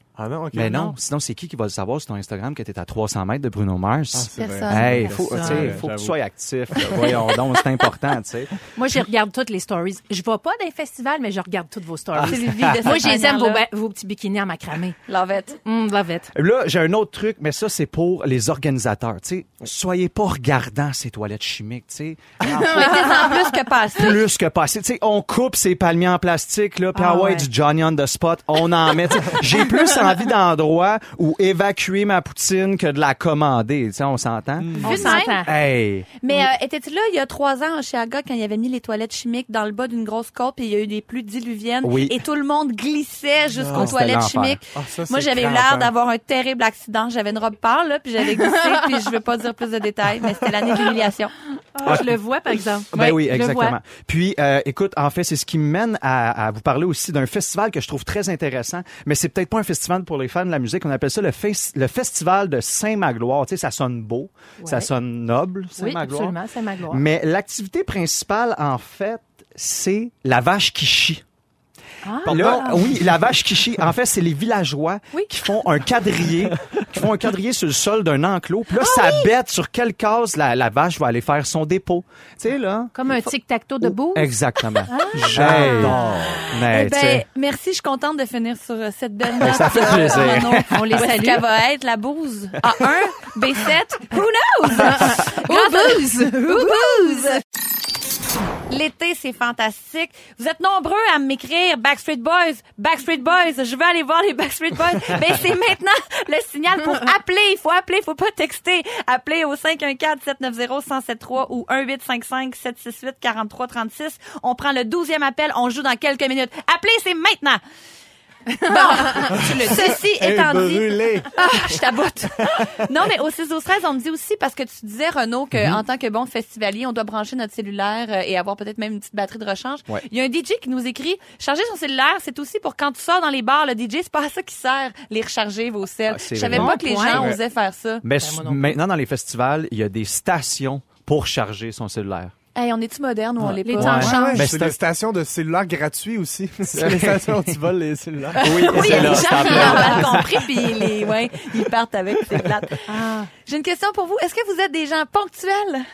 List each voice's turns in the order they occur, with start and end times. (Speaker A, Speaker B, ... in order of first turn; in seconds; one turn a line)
Speaker A: 0.1-0.9
Speaker B: 0.5-8.5
Speaker A: 4.1-6.2
Speaker C: 4.4-5.1
Speaker D: 5.3-5.7
Speaker D: 8.7-15.0
Speaker B: 12.2-12.9
Speaker C: 12.2-13.6
Speaker C: 15.1-15.6
Speaker D: 15.6-16.3
Speaker B: 16.3-23.2
Speaker C: 22.5-24.2
Speaker D: 22.7-23.3
Speaker B: 23.9-36.1
Speaker D: 26.9-27.5
Speaker A: 34.6-35.0
Speaker C: 34.8-35.5
Speaker D: 34.8-35.5
Speaker C: 36.2-51.3
Speaker B: 41.8-42.2
Speaker A: 43.5-44.0
Speaker B: 43.7-44.6
Speaker A: 44.7-45.9
Speaker D: 51.7-53.8
Speaker B: 51.8-52.1
Speaker B: 52.9-66.4
Speaker D: 64.6-64.9
Speaker D: 65.8-67.0
Speaker B: 66.9-71.2
Speaker D: 72.0-72.9
Speaker B: 72.2-87.2
Speaker D: 82.9-84.3
Speaker D: 84.9-86.6
Speaker A: 85.3-85.8
Speaker C: 86.5-97.4
Speaker B: 89.4-90.9
Speaker D: 90.7-91.4
Speaker D: 94.8-97.3
Speaker C: 98.7-117.6
Speaker D: 118.5-119.3
Speaker C: 118.7-138.0
Speaker A: 119.3-121.4
Speaker B: 125.5-125.8
Speaker B: 136.1-137.1
Speaker D: 136.5-137.3
Speaker A: 137.1-137.4
Speaker B: 138.0-142.3
Speaker D: 138.2-138.7
Speaker C: 142.5-144.2
Speaker B: 143.4-144.8
Speaker D: 143.6-144.4
Speaker A: 144.0-149.4
Speaker B: 146.7-147.6
Speaker D: 148.4-150.1
Speaker B: 148.4-150.6
Speaker C: 148.7-152.8
Speaker D: 152.8-153.3
Speaker C: 153.4-155.8